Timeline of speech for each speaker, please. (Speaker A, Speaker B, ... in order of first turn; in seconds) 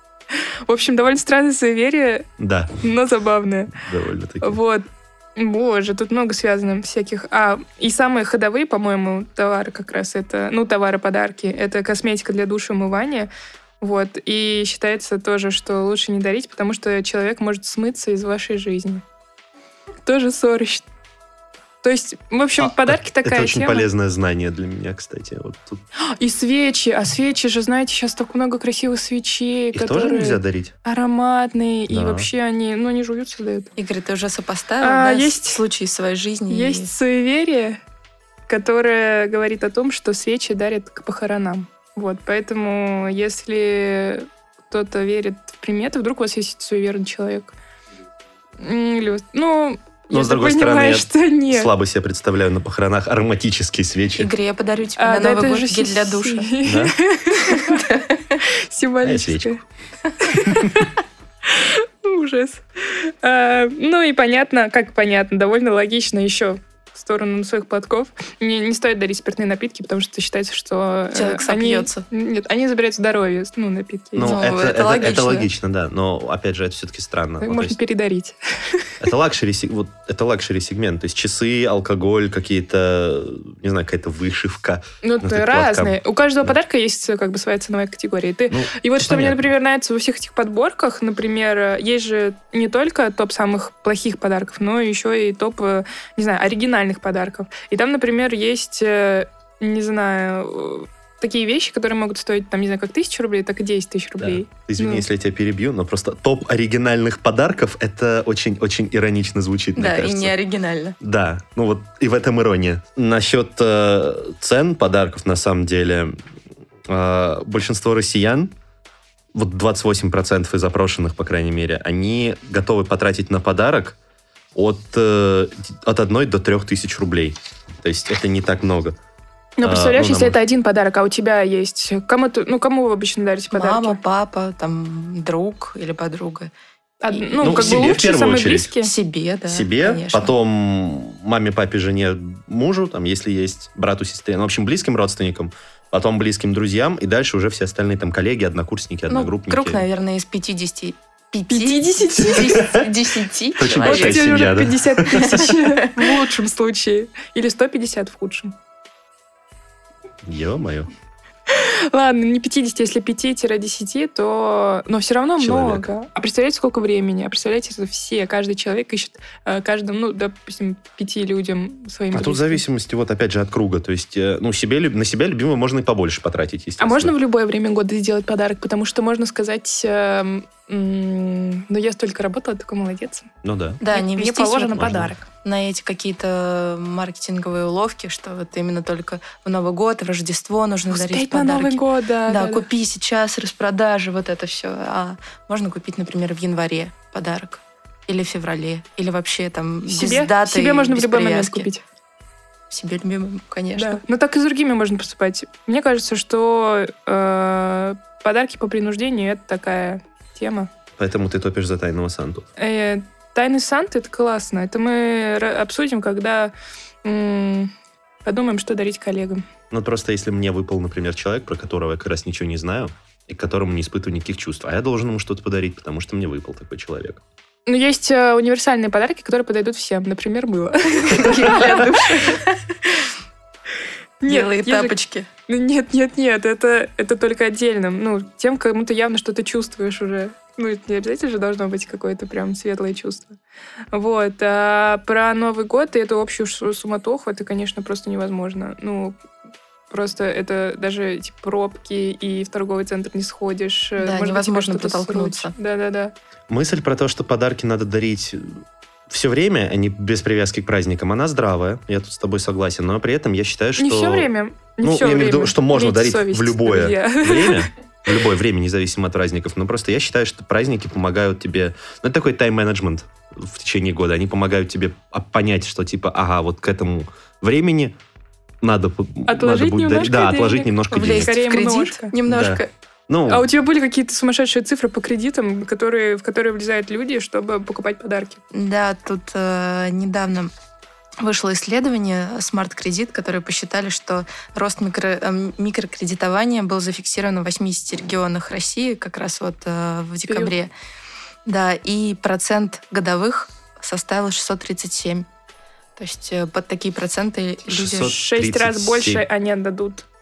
Speaker A: 0.7-2.2, 2.8-3.7, 4.4-4.8, 5.3-13.3, 13.8-19.0, 20.1-20.8, 21.8-23.9, 26.2-33.7, 34.8-35.6, 36.5-37.8, 38.5-47.5, 48.6-51.7, 55.0-59.6, 60.2-60.9, 61.5-74.3, 77.4-78.9, 85.0-105.0, 129.6-134.0, 137.0-138.9, 151.5-152.6, 153.8-158.5, 161.5-172.6, 176.8-183.3, 183.9-185.3, 190.9-192.7, 199.9-201.8, 203.8-210.7, 212.6-216.5, 217.0-217.7, 218.2-219.4, 227.7-231.9, 234.2-235.0, 235.5-243.4, 243.9-249.2, 249.9-256.1, 263.8-267.7, 279.3-282.1, 283.3-288.4, 300.2-300.5, 307.9-310.0
Speaker B: 2.4-2.7, 3.7-4.6, 22.6-25.8, 29.7-30.7, 31.9-32.3, 50.1-54.3, 56.6-56.9, 59.0-59.5, 60.5-60.7, 74.2-77.8, 79.0-86.5, 88.5-89.5, 104.2-110.3, 111.0-116.2, 116.9-118.5, 119.3-124.0, 124.5-128.9, 129.6-130.4, 137.4-138.7, 139.5-149.8, 152.3-152.9, 153.6-155.6, 160.2-160.9, 165.4-165.9, 172.1-177.1, 183.4-183.8, 184.8-185.1, 211.0-212.5, 219.7-227.2, 256.5-258.6, 259.1-264.3, 264.8-277.9, 278.6-281.4, 282.3-283.5, 307.7-309.2
Speaker C: 33.8-36.9, 54.2-56.5, 57.5-58.2, 71.1-72.0, 74.2-75.5, 109.8-111.0, 133.5-136.5, 137.1-138.0, 138.8-140.3, 149.1-154.4, 155.1-155.9, 183.8-201.7, 202.7-204.0, 231.0-233.1, 234.2-235.3, 254.0-255.5, 280.9-282.7, 288.5-290.5, 291.2-300.7, 301.4-305.3, 306.0-308.1